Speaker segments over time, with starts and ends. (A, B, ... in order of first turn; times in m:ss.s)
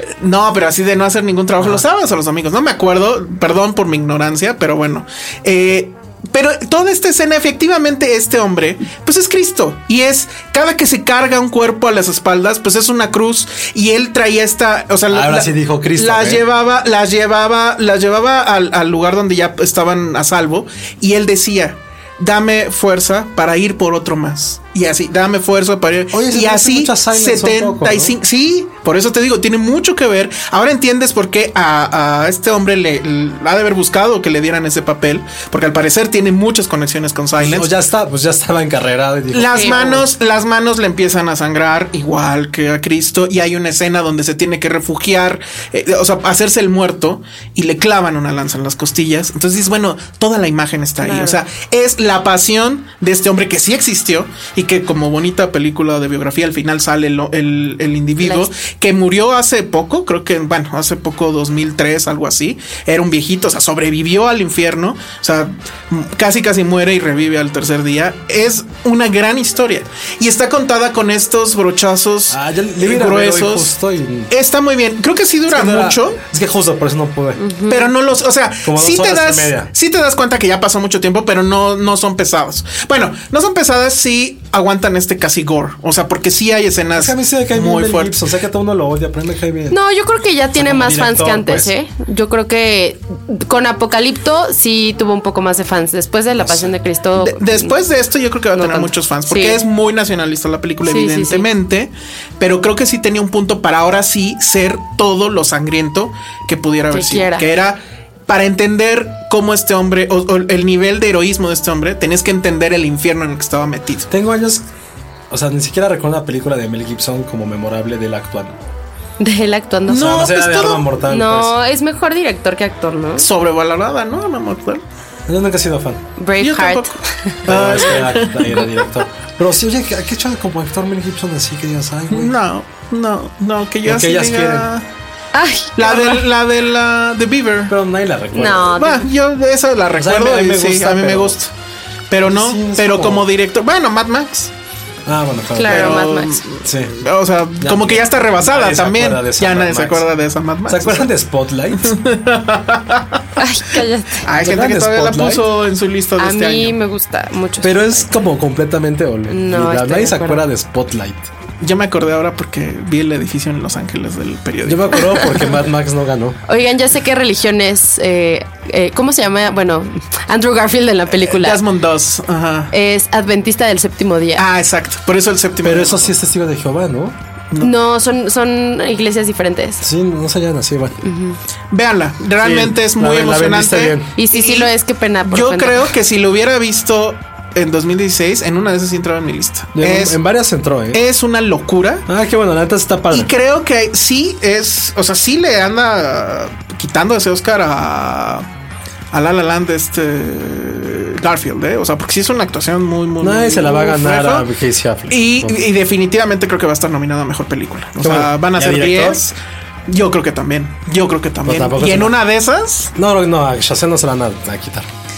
0:00.2-0:37.7 A
0:01.6-0:01.8 B
0:15.1-0:16.4 B
0:26.1-0:28.2 B
0:37.4-0:40.0 B
0:39.3-1:13.7 A
0:39.5-0:40.0 C
0:51.0-0:51.4 C
0:58.2-0:58.5 C
1:12.3-1:14.3 B
1:14.3-1:16.2 A
1:15.5-1:17.4 B
1:17.4-1:17.9 C
1:17.7-1:28.1 A
1:18.6-1:19.7 B
1:27.0-1:29.8 B
1:29.7-1:37.8 C
1:30.6-1:31.7 B
1:36.4-1:36.7 B
1:37.2-1:54.1 A
1:38.6-1:39.6 C
1:40.9-1:41.5 C
1:46.9-1:47.5 C
1:54.1-1:54.6 B
1:55.3-1:58.6 B
1:59.2-2:00.3 C
1:59.9-2:00.8 A
1:59.9-2:01.5 B
2:01.1-2:03.3 C
2:03.2-2:04.8 A
2:05.3-2:06.0 B
2:06.2-2:07.4 C
2:06.4-2:08.8 A
2:07.5-2:12.4 B
2:12.1-2:14.8 A
2:13.8-2:14.7 B
2:15.3-2:16.3 C
2:15.8-2:17.7 A
2:17.7-2:18.8 B
2:18.3-2:19.1 C
2:18.5-2:21.5 A
2:20.0-2:21.4 B
2:22.1-2:24.5 A
2:22.2-2:23.3 B
2:25.1-2:26.1 B
2:25.6-2:26.4 C
2:25.6-2:31.1 A
2:26.6-2:27.0 B
2:27.6-2:30.1 B
2:30.7-2:31.9 B
2:31.8-2:33.2 A
2:33.4-2:34.2 C
2:34.2-2:36.8 A
2:34.4-2:35.5 B
2:36.2-2:38.1 C
2:37.6-2:41.3 B
2:39.3-2:40.4 C
2:41.6-2:45.3 A
2:44.6-2:46.4 B
2:46.5-2:51.6 C
2:51.2-2:52.7 A
2:52.7-2:54.4 C
2:54.4-2:56.1 A
2:55.6-2:57.2 B
2:57.6-2:59.8 C
2:59.8-3:01.0 B
3:01.0-3:01.4 C
3:01.7-3:04.7 A
3:02.4-3:04.1 B
3:04.2-3:05.9 C
3:05.3-3:10.2 A
3:09.8-3:11.0 B
3:10.9-3:12.1 A
3:12.1-3:13.3 B
3:13.1-3:18.5 A
3:19.1-3:24.4 A
3:23.2-3:25.6 B
3:25.1-3:29.4 A
3:28.0-3:29.2 B
3:29.9-3:32.9 A
3:31.4-3:32.2 B
3:33.0-3:34.9 B